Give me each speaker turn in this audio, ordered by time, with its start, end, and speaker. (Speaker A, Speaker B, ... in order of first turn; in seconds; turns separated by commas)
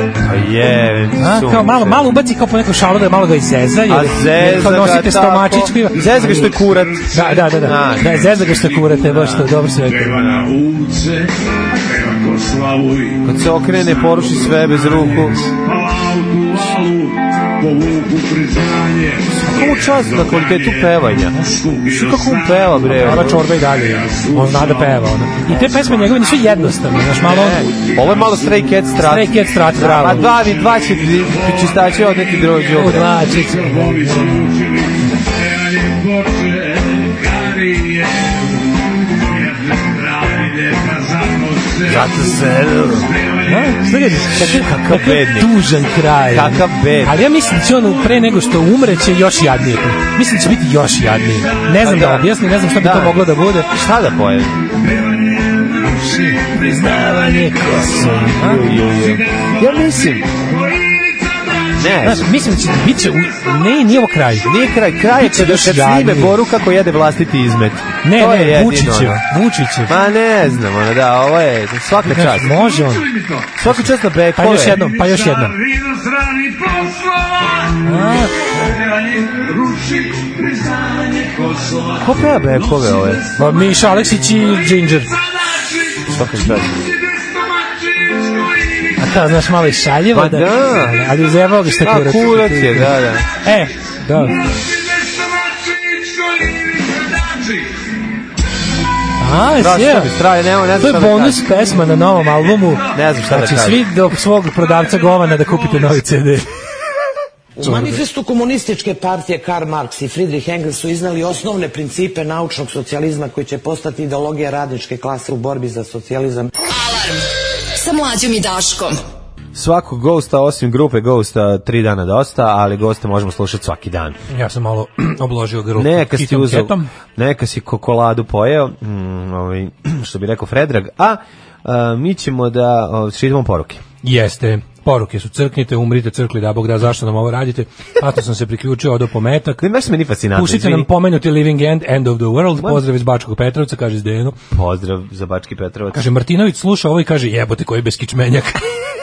Speaker A: 0.2-2.1, Speaker B: 1.2-6.5, Speaker A: 3.9-8.4, Speaker C: 5.9-9.3, Speaker B: 7.1-10.2, Speaker A: 8.9-9.5, Speaker C: 9.8-28.8, Speaker A: 13.2-15.5, Speaker A: 19.4-23.4, Speaker B: 22.9-27.7, Speaker A: 27.2-33.1, Speaker B: 28.9-30.4, Speaker C: 29.9-44.2, Speaker B: 32.7-34.5, Speaker A: 41.9-43.1, Speaker B: 43.5-53.7, Speaker A: 44.3-45.6, Speaker A: 46.3-47.2, Speaker C: 51.4-51.8, Speaker A: 51.7-54.6, Speaker C: 54.7-61.9, Speaker B: 56.1-58.8, Speaker A: 57.8-60.3, Speaker A: 61.8-62.3, Speaker B: 62.0-64.5, Speaker A: 64.4-69.2, Speaker B: 65.1-66.4, Speaker B: 68.0-69.9, Speaker A: 69.9-72.5, Speaker B: 72.0-73.1, Speaker C: 72.5-73.6, Speaker A: 73.6-74.8, Speaker B: 73.6-75.5, Speaker C: 74.7-89.0, Speaker B: 77.8-78.3, Speaker A: 82.0-83.2, Speaker B: 83.3-85.1, Speaker A: 86.1-86.7, Speaker B: 86.2-86.6, Speaker B: 89.0-94.4, Speaker A: 90.1-91.0, Speaker A: 91.8-93.2, Speaker C: 94.2-97.8, Speaker B: 99.2-100.1, Speaker A: 99.6-101.6, Speaker B: 100.8-106.4, Speaker A: 102.9-103.8, Speaker C: 104.7-106.0, Speaker D: 107.5-116.5, Speaker B: 107.6-108.0, Speaker E: 116.7-119.0, Speaker A: 119.5-124.2, Speaker B: 124.3-126.9, Speaker A: 125.8-133.8, Speaker B: 134.0-139.6, Speaker A: 139.6-140.9, Speaker B: 140.3-144.4, Speaker A: 142.6-142.8, Speaker A: 144.5-146.1, Speaker B: 145.9-148.9